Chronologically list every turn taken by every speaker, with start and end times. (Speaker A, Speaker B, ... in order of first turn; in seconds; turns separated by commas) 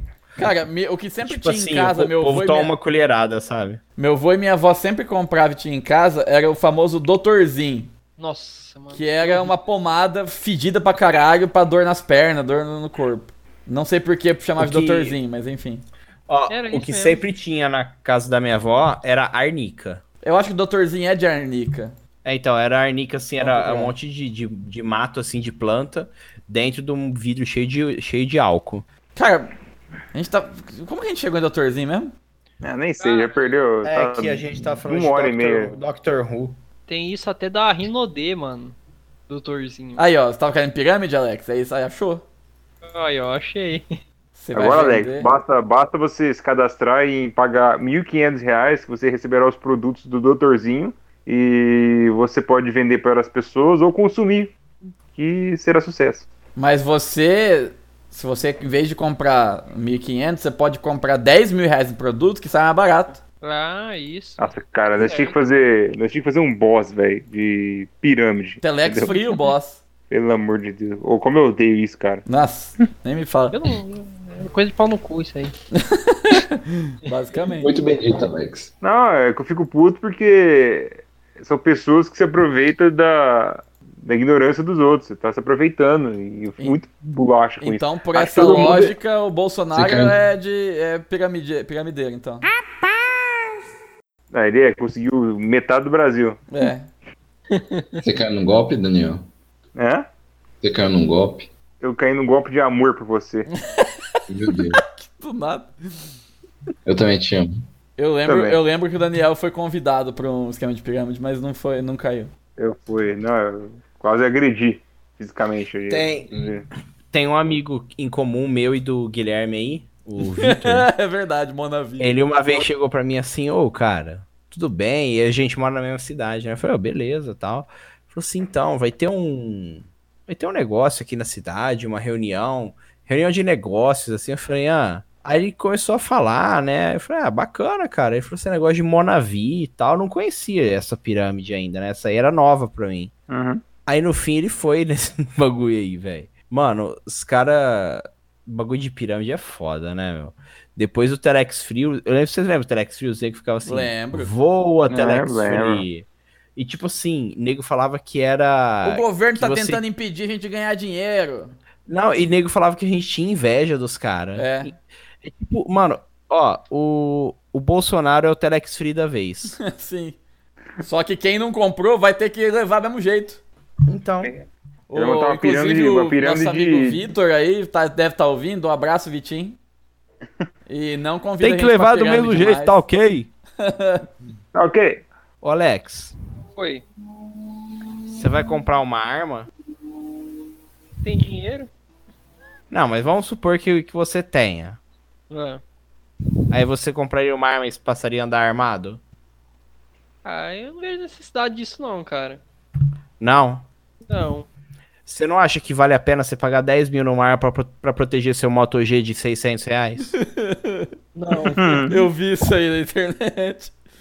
Speaker A: 0.4-2.7, Speaker B: 1.2-3.8, Speaker A: 4.0-7.9, Speaker C: 8.2-9.5, Speaker A: 8.9-15.8, Speaker B: 14.6-15.2, Speaker B: 16.3-20.0, Speaker C: 16.5-17.2, Speaker A: 20.2-21.9, Speaker B: 22.2-28.9, Speaker A: 23.4-23.9, Speaker A: 29.1-29.5, Speaker A: 30.1-32.1, Speaker D: 32.6-35.7, Speaker C: 33.0-33.6, Speaker B: 33.8-36.6, Speaker C: 36.9-38.8, Speaker C: 39.3-40.0, Speaker A: 40.0-42.2, Speaker C: 42.8-43.9, Speaker A: 44.4-45.3, Speaker D: 44.5-54.5, Speaker D: 55.1-56.3, Speaker A: 56.6-63.2, Speaker C: 63.3-65.4, Speaker D: 64.4-69.4, Speaker A: 68.6-69.8, Speaker D: 70.1-72.2, Speaker A: 72.3-73.6, Speaker C: 73.5-75.5, Speaker A: 75.7-77.7, Speaker E: 77.5-78.7, Speaker D: 78.8-88.8, Speaker A: 87.6-92.5, Speaker E: 88.3-88.9, Speaker E: 89.7-90.2, Speaker D: 94.3-96.4, Speaker A: 96.5-96.9, Speaker C: 97.5-98.0, Speaker E: 98.0-99.3, Speaker D: 99.8-100.1, Speaker E: 100.6-101.5, Speaker D: 101.8-103.5, Speaker A: 103.6-104.2, Speaker E: 104.3-104.8, Speaker A: 104.8-105.7, Speaker E: 106.8-107.7, Speaker A: 108.0-112.3, Speaker D: 108.3-108.6, Speaker D: 112.6-116.7, Speaker B: 115.9-116.3, Speaker B: 117.1-120.9, Speaker A: 120.2-122.7, Speaker B: 122.0-143.1, Speaker D: 143.3-143.6, Speaker B: 143.9-159.8, Speaker A: 153.7-154.3, Speaker D: 154.9-155.8, Speaker A: 158.8-161.6, Speaker B: 161.9-169.6, Speaker A: 164.4-164.7, Speaker A: 169.6-170.2, Speaker A: 170.8-173.4, Speaker B: 173.9-174.3, Speaker D: 174.2-177.1, Speaker A: 174.9-179.6, Speaker A: 180.7-182.8, Speaker B: 181.4-183.3, Speaker A: 183.6-184.0, Speaker D: 184.5-185.1, Speaker B: 185.4-186.2, Speaker C: 186.6-186.8, Speaker B: 188.1-189.5, Speaker C: 191.0-191.7, Speaker B: 192.7-194.8, Speaker C: 195.3-195.6, Speaker B: 196.5-199.0, Speaker C: 200.2-202.4, Speaker B: 203.2-203.7, Speaker C: 204.1-204.5, Speaker B: 205.1-210.1, Speaker A: 210.2-213.7, Speaker E: 211.2-211.6, Speaker D: 211.6-212.0